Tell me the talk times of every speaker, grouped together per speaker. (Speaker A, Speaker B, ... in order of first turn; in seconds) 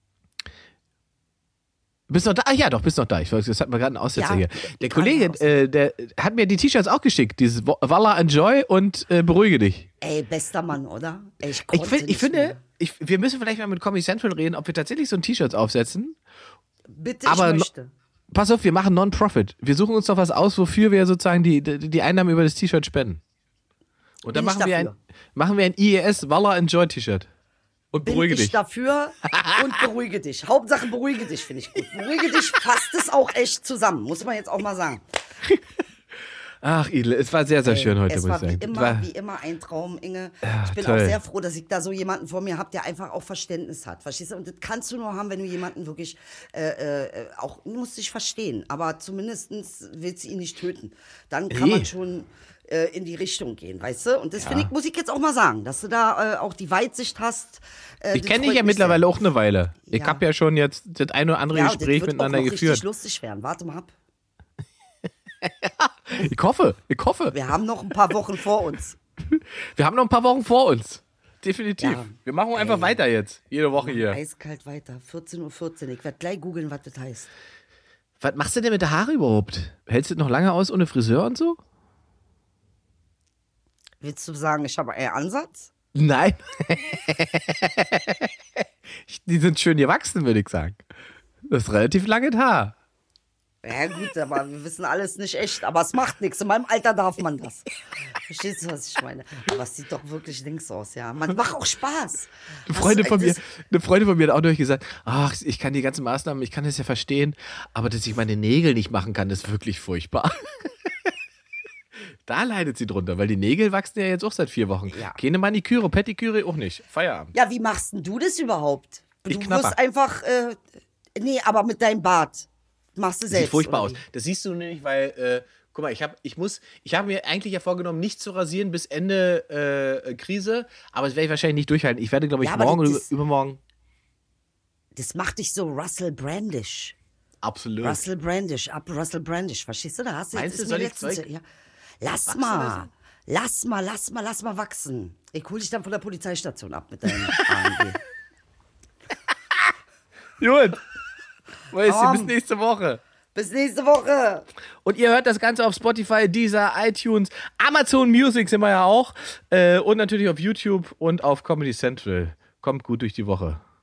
Speaker A: 2.1-9.9, 11.7-16.2, 17.2-17.7, 18.3-23.2, 24.2-27.3, 27.9-28.6, 36.6-39.1, 40.4-41.2, 51.5-51.9, 54.4-54.7, 58.1-62.8, 65.4-67.3, 69.3-74.2, 78.2-81.6, 85.9-90.8, 91.5-92.7, 102.7-111.1, 112.2-117.3, 119.3-119.8, 123.3-133.6, 137.4-138.0, 140.3-141.2, 142.3-142.9, 147.1-147.4, 150.4-150.8, 151.7-153.0, 154.8-163.6
Speaker B: 4.1-5.5, 10.0-12.6, 16.9-17.9, 24.3-24.9, 28.0-35.0, 37.6-59.0, 59.9-60.2, 61.5-63.9, 67.3-69.0, 71.8-73.0, 73.8-77.3, 84.0-85.7, 93.6-103.4, 114.9-115.2, 117.3-120.6, 121.2-124.0, 132.4-133.1, 134.9-136.9, 137.8-141.4, 142.0-148.0, 151.9-152.3, 153.3-154.4